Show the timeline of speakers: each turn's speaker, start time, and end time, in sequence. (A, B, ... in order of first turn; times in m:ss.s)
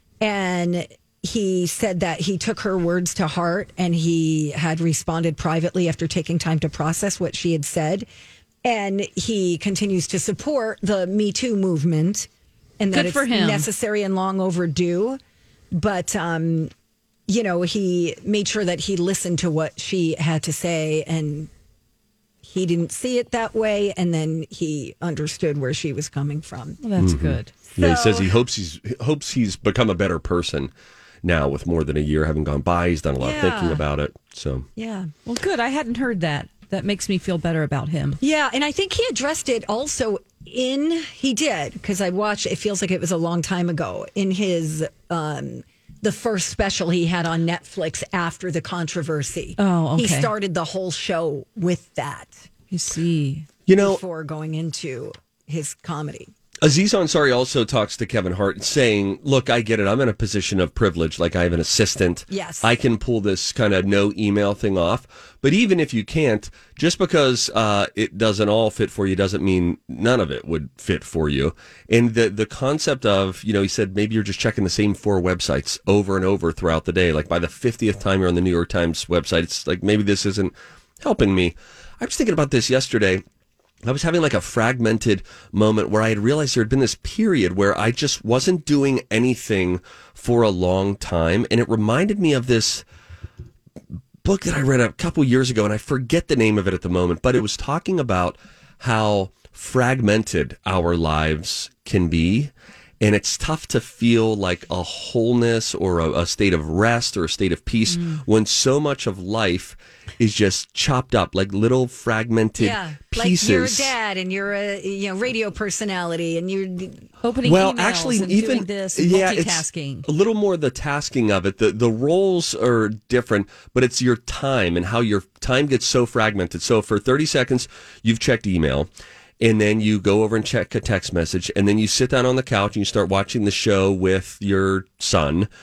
0:00.2-0:08.1 A
0:08.6-0:12.3 A
0:12.8-0:15.2 A
0:12.9-0:13.7 B
0:15.7-0:16.7 A
0:17.3-0:21.5 A
0:22.4-0:26.8 A
0:26.8-0:27.5 B
0:27.0-0:30.7 C
0:27.7-0:28.3 A
0:31.2-0:34.7 C
0:33.2-0:33.8 A
0:34.8-0:35.1 A
0:35.2-0:38.2 B
0:38.2-0:52.4 A
0:49.6-0:50.3 B
0:52.7-0:53.5 B
0:53.7-0:54.0 C
0:53.8-0:56.3 A
0:56.6-1:23.2 C
1:02.3-1:02.7 A
1:23.8-1:32.8 C
1:34.2-1:53.9 C
1:47.9-1:48.2 B
1:52.6-1:57.0 A
1:57.2-2:00.0 B
1:57.4-2:08.9 C
2:09.4-2:15.5 C